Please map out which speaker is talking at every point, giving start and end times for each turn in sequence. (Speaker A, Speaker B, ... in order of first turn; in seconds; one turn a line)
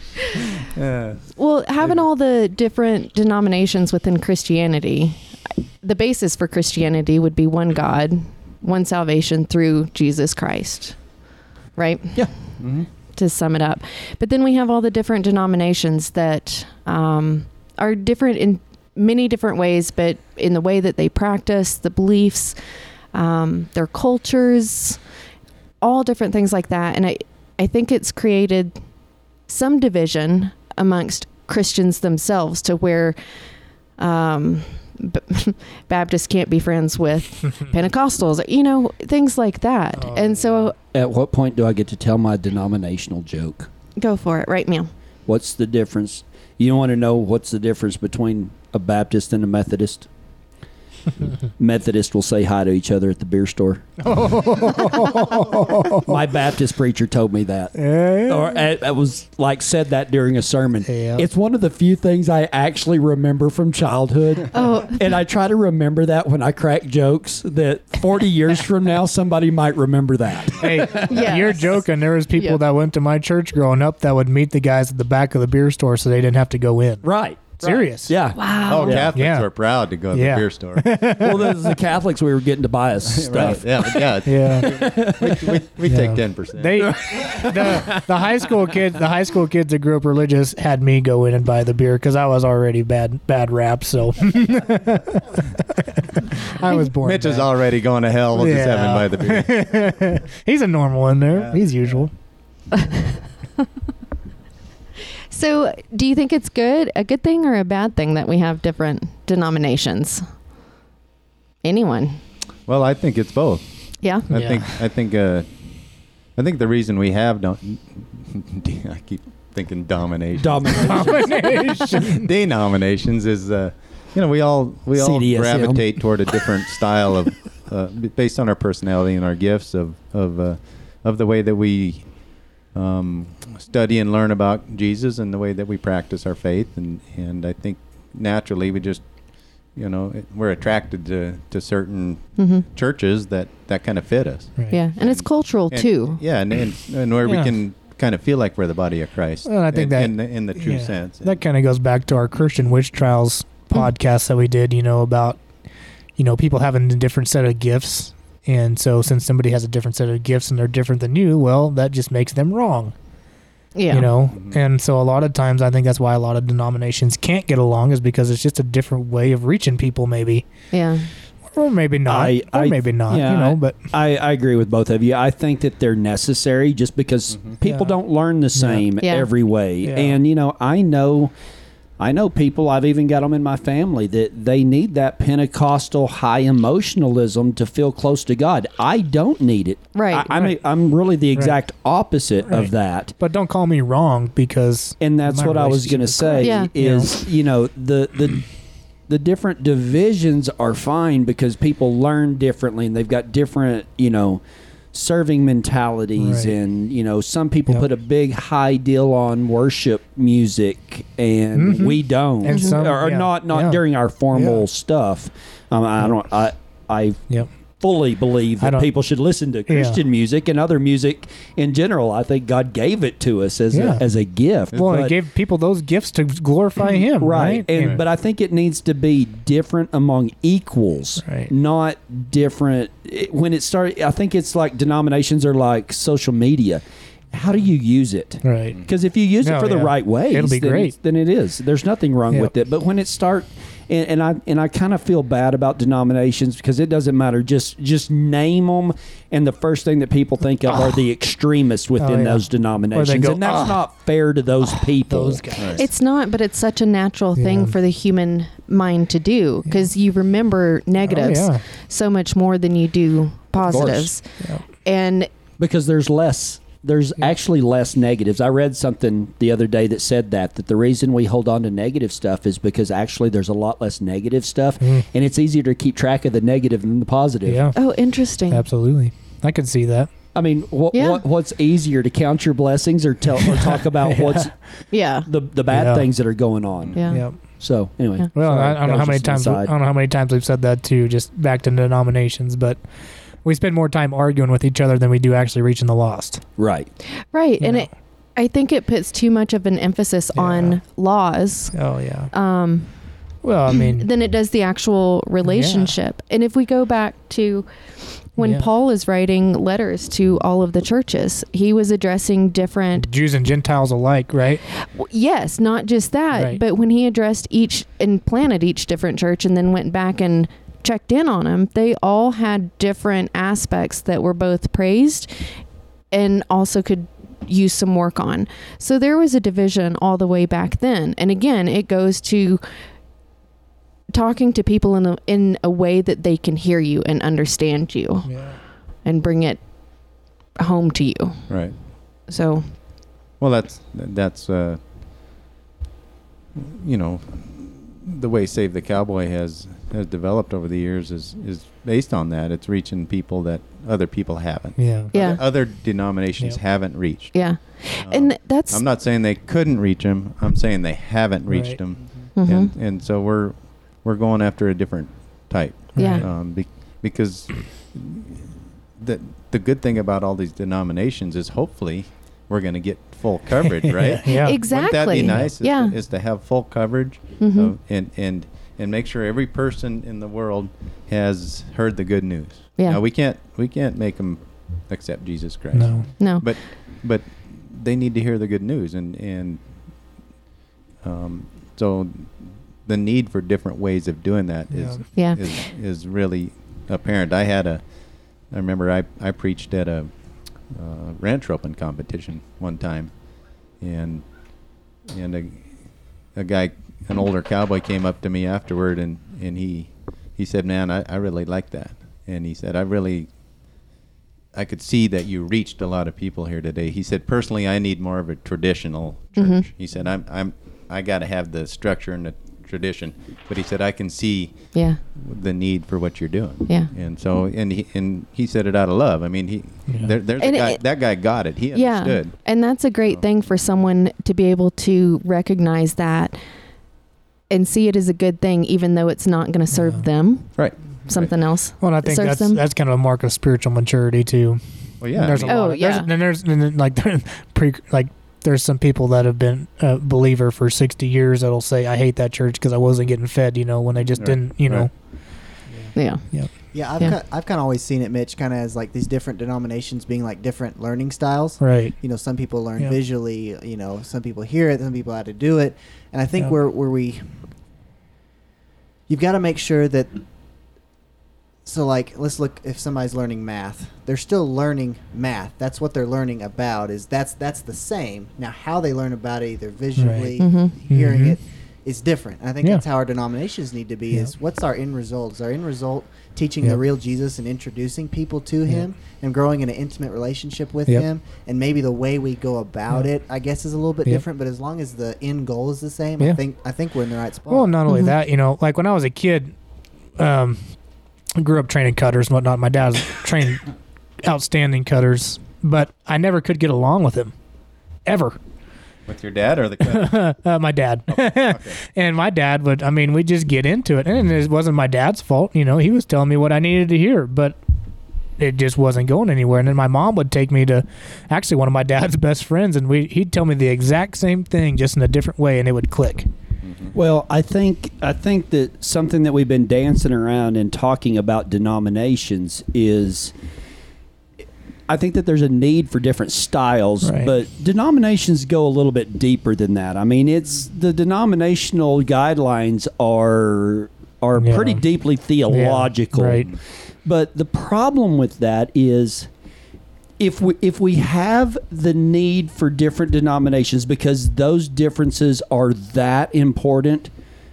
Speaker A: 0.5-1.2
Speaker B: 1.4-5.2
Speaker B: 5.8-11.0
Speaker B: 11.8-12.3
Speaker A: 12.6-12.8
Speaker B: 13.2-22.6
Speaker B: 23.1-25.0
Speaker B: 25.8-28.8
Speaker B: 29.5-33.1
Speaker B: 34.0-40.7
Speaker C: 40.0-40.7
Speaker D: 40.9-43.7
Speaker B: 44.0-44.9
Speaker D: 45.2-50.1
Speaker D: 51.6-54.0
Speaker C: 54.0-56.2
Speaker D: 56.0-71.1
Speaker C: 57.8-58.6
Speaker C: 60.9-61.2
Speaker B: 64.5-65.0
Speaker C: 70.6-77.0
Speaker B: 70.9-72.6
Speaker D: 77.0-79.1
Speaker C: 77.6-78.1
Speaker B: 78.3-79.0
Speaker A: 78.7-81.2
Speaker C: 79.1-79.5
Speaker C: 80.1-81.7
Speaker D: 81.2-85.6
Speaker A: 83.1-86.9
Speaker C: 84.2-84.8
Speaker C: 85.9-97.5
Speaker D: 86.8-88.0
Speaker A: 97.0-99.6
Speaker C: 98.3-102.1
Speaker A: 101.3-101.6
Speaker B: 102.7-103.0
Speaker B: 105.3-110.2
Speaker B: 111.6-112.2
Speaker A: 112.7-113.6
Speaker B: 114.0-114.3
Speaker A: 114.2-115.5
Speaker C: 114.3-114.7
Speaker A: 116.3-139.0
Speaker D: 120.4-121.5
Speaker C: 120.8-122.3
Speaker D: 125.0-126.0
Speaker A: 139.7-151.4
Speaker B: 142.4-142.7
Speaker B: 144.7-146.2
Speaker C: 147.2-147.5
Speaker C: 149.4-155.4
Speaker C: 156.2-162.9
Speaker B: 163.8-164.1
Speaker C: 163.9-170.4
Speaker A: 164.3-164.6
Speaker B: 170.7-171.1
Speaker C: 171.5-173.8
Speaker D: 172.1-181.3
Speaker C: 177.6-178.0
Speaker C: 178.5-178.8
Speaker B: 179.0-179.3
Speaker C: 179.8-180.2
Speaker D: 182.0-193.1
Speaker B: 189.9-190.3
Speaker C: 192.4-197.1
Speaker D: 195.0-198.5
Speaker B: 196.4-196.7
Speaker D: 199.1-204.4
Speaker D: 204.9-217.2
Speaker C: 206.2-206.5
Speaker C: 211.5-213.8
Speaker B: 212.5-212.8
Speaker C: 214.3-214.7
Speaker D: 217.8-225.2
Speaker C: 218.6-218.9
Speaker C: 219.7-220.0
Speaker C: 223.7-224.0
Speaker C: 224.7-228.0
Speaker D: 227.2-255.4
Speaker C: 231.2-231.5
Speaker C: 238.4-238.8
Speaker C: 239.4-240.9
Speaker C: 252.0-253.8
Speaker C: 255.1-255.8
Speaker A: 255.6-255.8
Speaker B: 255.7-265.3
Speaker C: 257.4-257.7
Speaker C: 261.1-261.6
Speaker D: 263.6-264.1
Speaker C: 263.7-264.6
Speaker D: 265.6-277.6
Speaker C: 277.4-277.8
Speaker B: 277.7-278.6
Speaker C: 278.5-280.1
Speaker D: 280.3-284.6
Speaker B: 280.9-281.2
Speaker C: 283.4-284.5
Speaker B: 284.9-285.3
Speaker D: 285.2-289.7
Speaker C: 285.7-286.1
Speaker B: 286.9-287.2
Speaker C: 287.1-287.6
Speaker C: 288.3-292.8
Speaker C: 293.4-296.4
Speaker D: 296.6-296.9
Speaker B: 297.2-302.9
Speaker C: 297.6-297.9
Speaker C: 300.3-300.8
Speaker C: 301.7-302.3
Speaker C: 303.4-304.1
Speaker B: 303.7-307.7
Speaker C: 305.4-305.9
Speaker B: 308.3-313.1
Speaker C: 308.4-308.7
Speaker C: 313.0-314.6
Speaker B: 314.7-325.5
Speaker C: 316.3-316.6
Speaker B: 326.1-332.6
Speaker B: 334.1-338.5
Speaker C: 338.2-338.6
Speaker B: 339.0-339.6
Speaker B: 340.6-341.5
Speaker A: 341.5-341.8
Speaker B: 342.2-342.6
Speaker A: 343.4-344.8
Speaker A: 346.5-389.9
Speaker C: 354.8-355.1
Speaker B: 355.1-355.4
Speaker B: 357.3-358.8
Speaker C: 361.5-361.8
Speaker B: 362.4-362.7
Speaker C: 365.9-366.3
Speaker C: 373.9-374.6
Speaker B: 374.2-375.9
Speaker B: 377.4-377.7
Speaker C: 385.7-386.1
Speaker B: 386.2-386.5
Speaker A: 391.0-413.3
Speaker C: 394.7-395.1
Speaker B: 395.1-395.4
Speaker A: 414.5-432.3
Speaker B: 419.4-419.6
Speaker B: 424.7-425.0
Speaker B: 430.4-430.8
Speaker B: 431.7-436.4
Speaker B: 437.5-442.6
Speaker C: 439.7-440.0
Speaker A: 440.6-441.3
Speaker C: 441.8-454.9
Speaker A: 445.0-445.6
Speaker B: 445.4-446.1
Speaker A: 454.1-454.9
Speaker C: 455.7-457.0
Speaker B: 455.9-457.1
Speaker E: 456.7-467.3
Speaker C: 461.6-462.0
Speaker E: 469.1-470.2
Speaker E: 471.6-497.8
Speaker C: 480.0-481.4
Speaker B: 480.4-480.7
Speaker C: 497.5-499.5
Speaker B: 497.9-498.1
Speaker C: 500.2-500.7
Speaker C: 501.4-503.7
Speaker C: 504.2-507.3
Speaker C: 508.0-508.4
Speaker A: 509.1-510.2
Speaker C: 509.9-517.6
Speaker A: 511.1-511.8
Speaker C: 518.4-526.3
Speaker A: 526.6-526.9
Speaker D: 526.9-533.3
Speaker D: 534.9-549.3
Speaker C: 537.0-537.3
Speaker C: 544.4-544.8
Speaker C: 545.5-546.5
Speaker D: 550.2-557.1